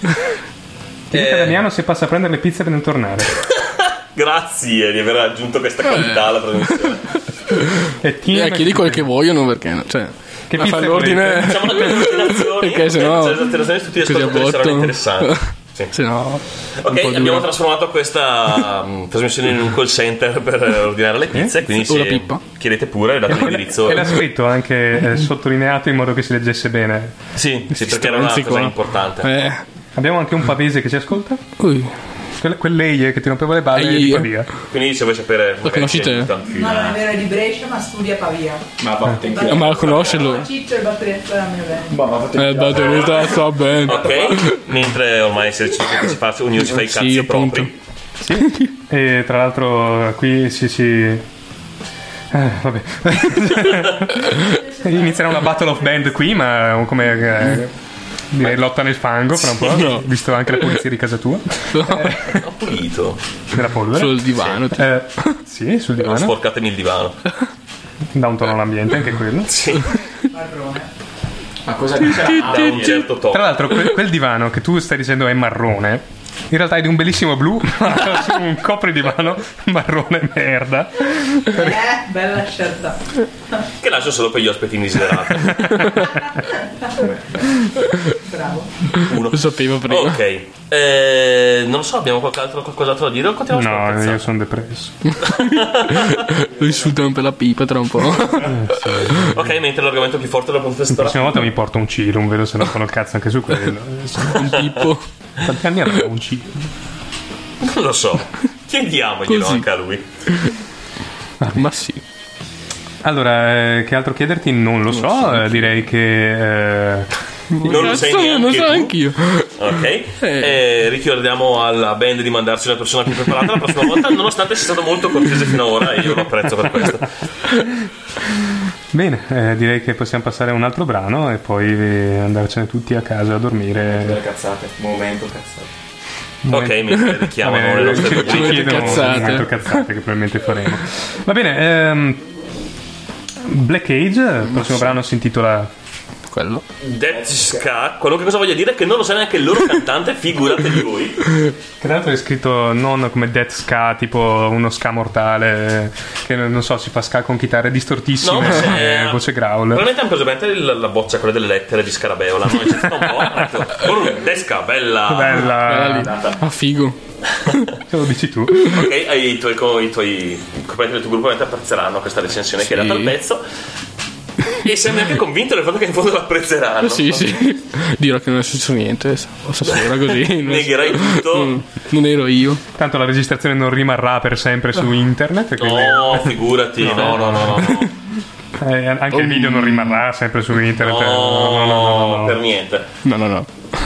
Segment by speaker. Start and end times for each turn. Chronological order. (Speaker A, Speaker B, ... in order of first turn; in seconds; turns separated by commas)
Speaker A: 1.1-3.4, Speaker B: 1.1-1.6, Speaker B: 3.4-7.2, Speaker C: 5.8-7.0, Speaker A: 8.0-9.1, Speaker C: 8.3-17.5, Speaker A: 10.5-11.8, Speaker B: 11.3-15.9, Speaker B: 16.8-24.2, Speaker C: 21.7-22.4, Speaker A: 23.3-27.2, Speaker B: 27.4-29.3, Speaker C: 27.7-29.6, Speaker A: 29.9-31.4, Speaker C: 31.6-31.9, Speaker A: 32.4-34.5, Speaker C: 33.7-34.4, Speaker B: 34.7-37.0, Speaker C: 35.6-36.3, Speaker D: 36.5-38.6, Speaker E: 38.8-40.3, Speaker D: 39.2-41.9, Speaker C: 39.5-40.5, Speaker E: 41.9-44.3, Speaker C: 42.4-44.6, Speaker B: 42.7-47.7, Speaker C: 46.6-47.7, Speaker A: 48.2-51.2, Speaker C: 48.4-48.7, Speaker A: 52.3-57.7, Speaker D: 54.5-55.5, Speaker A: 58.3-62.4, Speaker B: 59.6-59.9, Speaker C: 59.7-60.1, Speaker C: 61.7-62.1, Speaker B: 62.1-63.2, Speaker A: 63.5-66.3, Speaker C: 63.9-65.4, Speaker B: 66.0-67.2, Speaker A: 68.1-69.7, Speaker B: 69.5-69.9, Speaker D: 70.3-70.9, Speaker E: 71.7-73.0, Speaker B: 72.2-73.5, Speaker A: 73.3-81.8, Speaker D: 81.5-83.0, Speaker B: 83.8-86.0, Speaker D: 86.0-86.5, Speaker D: 88.2-88.7, Speaker B: 89.0-94.3, Speaker C: 89.3-90.2, Speaker A: 93.5-95.2, Speaker C: 95.1-98.6, Speaker B: 95.3-96.3, Speaker E: 96.5-97.0, Speaker A: 98.4-99.6, Speaker B: 99.3-101.5, Speaker A: 100.9-104.7, Speaker C: 104.3-105.0, Speaker B: 104.4-104.7, Speaker A: 105.4-106.7, Speaker B: 107.6-110.0, Speaker C: 109.3-109.7, Speaker A: 111.4-111.7, Speaker C: 111.5-112.0, Speaker A: 113.0-117.1, Speaker C: 115.0-115.6, Speaker C: 117.5-119.7, Speaker B: 117.6-119.0, Speaker A: 117.7-118.0, Speaker B: 119.5-127.1, Speaker C: 120.2-120.6, Speaker A: 128.9-134.2, Speaker E: 133.8-135.7, Speaker A: 136.4-142.3, Speaker B: 136.5-139.4, Speaker C: 138.3-139.9, Speaker A: 143.4-145.7, Speaker C: 144.5-144.9, Speaker C: 146.3-146.7, Speaker B: 146.8-151.2, Speaker E: 147.1-147.6, Speaker A: 151.8-159.9, Speaker B: 158.2-165.5, Speaker A: 165.1-166.1, Speaker C: 165.6-167.0, Speaker A: 167.9-168.8, Speaker B: 168.7-173.4, Speaker C: 172.6-173.1, Speaker B: 174.6-177.3, Speaker C: 176.8-182.6, Speaker B: 179.6-181.6, Speaker A: 182.8-187.8, Speaker B: 185.6-187.9, Speaker A: 188.6-192.4, Speaker C: 189.1-190.0, Speaker B: 190.8-192.9, Speaker C: 193.0-193.5